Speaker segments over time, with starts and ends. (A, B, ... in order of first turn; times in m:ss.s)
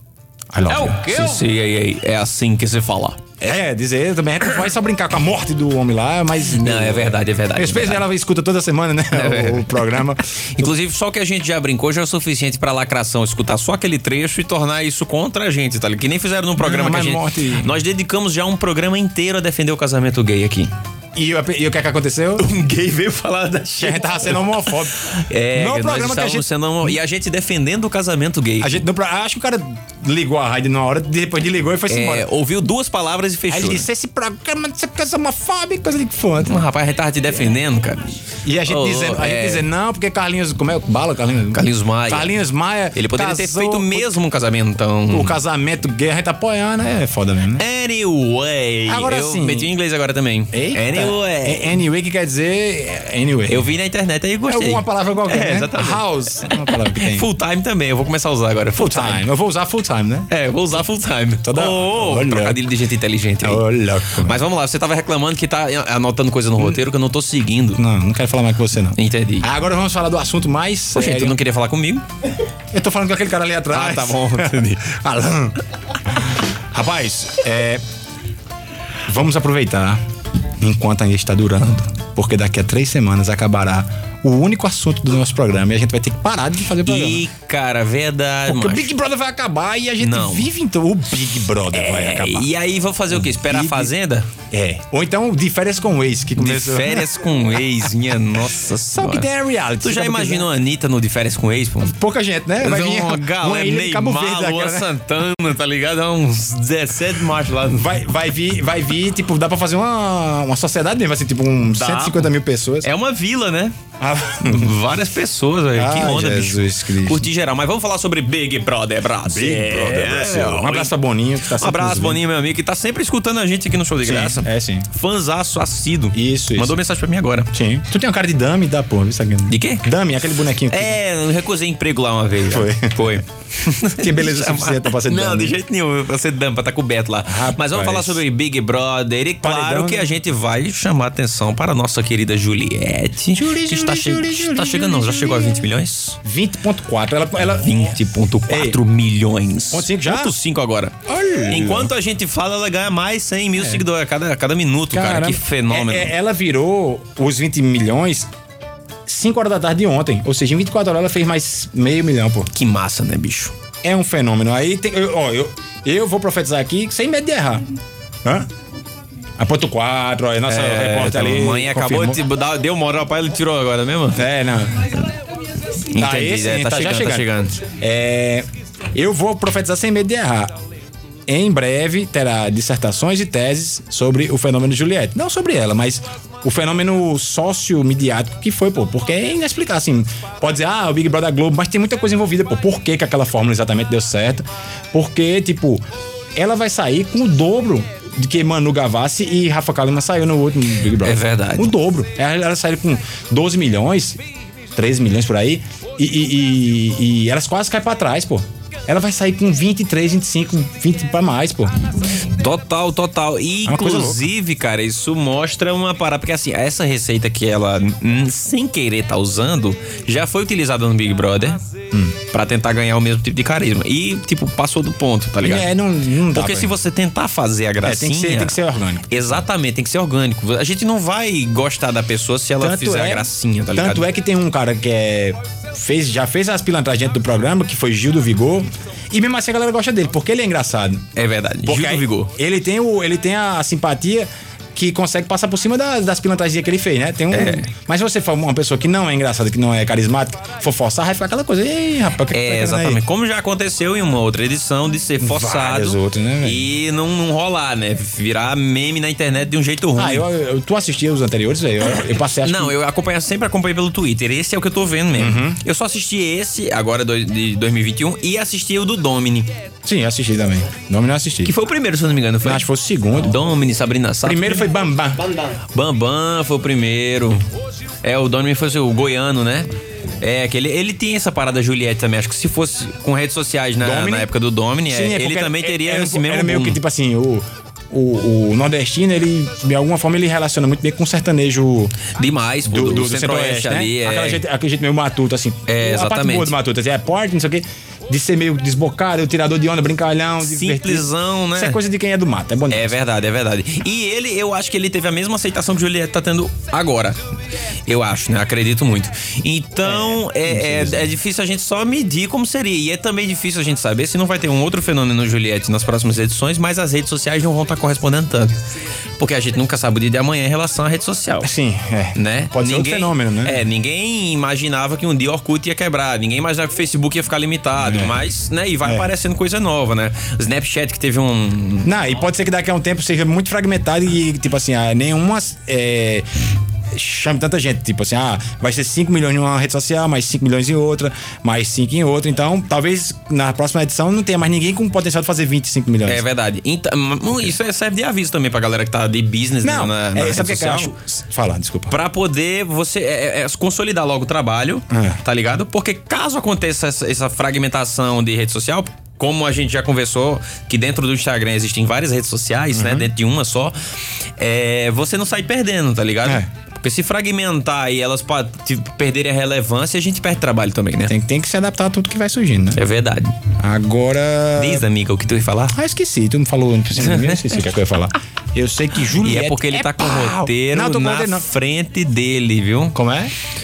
0:00.5-0:01.4 A
0:00.7-0:03.2 B
0:03.4-0:10.7 A
0:06.6-0:08.0 B
0:09.1-0:10.0 B
0:10.6-0:20.7 B
0:16.6-0:17.7 A
0:21.1-0:22.5 A
0:22.4-0:28.8 B
0:23.8-0:26.5 A
0:28.6-0:32.3 A
0:31.9-0:33.8 B
0:33.5-0:36.6 A
0:36.4-0:38.1 B
0:38.4-0:44.1 A
0:38.7-0:39.7 B
0:41.5-0:42.3 B
0:43.0-0:45.4 B
0:45.1-0:47.6 A
0:47.6-0:51.8 B
0:48.9-0:49.7 A
0:50.5-0:53.7 A
0:53.5-0:59.2 B
0:54.5-0:57.3 A
0:58.8-1:00.3 A
1:00.3-1:03.6 B
1:01.4-1:02.6 A
1:03.4-1:04.4 A
1:04.2-1:07.8 B
1:07.8-1:11.4 A
1:09.0-1:09.5 B
1:10.9-1:12.0 B
1:12.7-1:15.6 A
1:13.7-1:14.9 B
1:16.1-1:17.8 A
1:19.1-1:20.0 A
1:20.6-1:27.2 A
1:26.8-1:28.9 B
1:28.5-1:32.5 A
1:30.0-1:30.5 B
1:31.7-1:34.3 B
1:33.1-1:33.9 A
1:34.5-1:37.1 A
1:36.4-1:39.3 B
1:38.9-1:40.5 A
1:39.8-1:41.9 B
1:41.8-1:44.9 A
1:42.6-1:47.9 B
1:47.7-1:52.9 A
1:51.7-1:53.8 B
1:54.0-1:54.7 A
1:54.5-2:00.9 B
1:55.8-1:57.3 A
1:59.3-2:02.2 A
2:01.5-2:07.5 B
2:04.0-2:04.9 A
2:06.1-2:06.8 A
2:07.5-2:11.0 A
2:09.5-2:09.9 B
2:10.7-2:26.2 B
2:12.5-2:13.2 A
2:13.9-2:15.6 A
2:17.3-2:18.2 A
2:19.4-2:20.1 A
2:23.4-2:25.7 A
2:26.2-2:27.8 A
2:27.5-2:31.0 B
2:28.5-2:28.8 A
2:29.7-2:30.4 A
2:31.1-2:31.9 A
2:31.5-2:36.1 B
2:33.6-2:33.8 A
2:34.9-2:38.3 A
2:39.1-2:42.5 A
2:42.5-2:43.5 B
2:43.8-2:47.7 A
2:49.4-2:52.2 A
2:50.5-2:54.2 B
2:54.1-2:55.0 A
2:55.8-2:57.6 B
2:55.9-3:00.6 A
3:01.3-3:15.8 A
3:16.4-3:24.2 A
3:21.0-3:21.7 B
3:24.7-3:31.8 A
3:32.3-3:41.6 B
3:33.7-3:34.2 A
3:42.2-3:45.7 B
3:45.4-3:46.8 A
3:46.3-3:48.6 B
3:47.8-3:49.4 A
3:49.1-3:54.0 B
3:52.6-4:01.0 A
4:01.2-4:02.3 B
4:01.6-4:13.0 A
4:07.3-4:07.7 B
4:12.3-4:20.2 B
4:15.2-4:16.7 A
4:20.0-4:22.8 A
4:22.4-4:29.5 B
4:25.2-4:25.6 A
4:29.8-4:31.5 A
4:31.4-4:34.7 B
4:32.4-4:33.4 A
4:34.2-4:35.3 A
4:35.7-4:37.4 B
4:38.0-4:39.7 B
4:40.2-4:46.8 B
4:43.8-4:44.3 A
4:44.9-4:52.0 A
4:52.2-4:54.4 B
4:52.6-5:02.9 A
4:55.7-4:56.6 B
5:00.4-5:01.8 B
5:02.7-5:07.2 B
5:07.9-5:18.6 B
5:09.8-5:11.1 A
5:19.2-5:21.5 B
5:21.4-5:23.6 A
5:22.2-5:31.9 B
5:27.8-5:28.2 A
5:31.8-5:36.3 A
5:36.9-5:46.2 A
5:46.1-5:50.9 B
5:49.6-5:52.0 A
5:51.9-6:03.8 B
5:54.9-5:55.2 A
6:02.7-6:03.1 A
6:04.4-6:11.1 B
6:11.1-6:12.8 A
6:12.7-6:13.4 B
6:13.6-6:14.9 A
6:14.6-6:15.7 B
6:15.7-6:21.4 A
6:17.0-6:17.6 B
6:19.2-6:23.0 B
6:23.0-6:23.3 A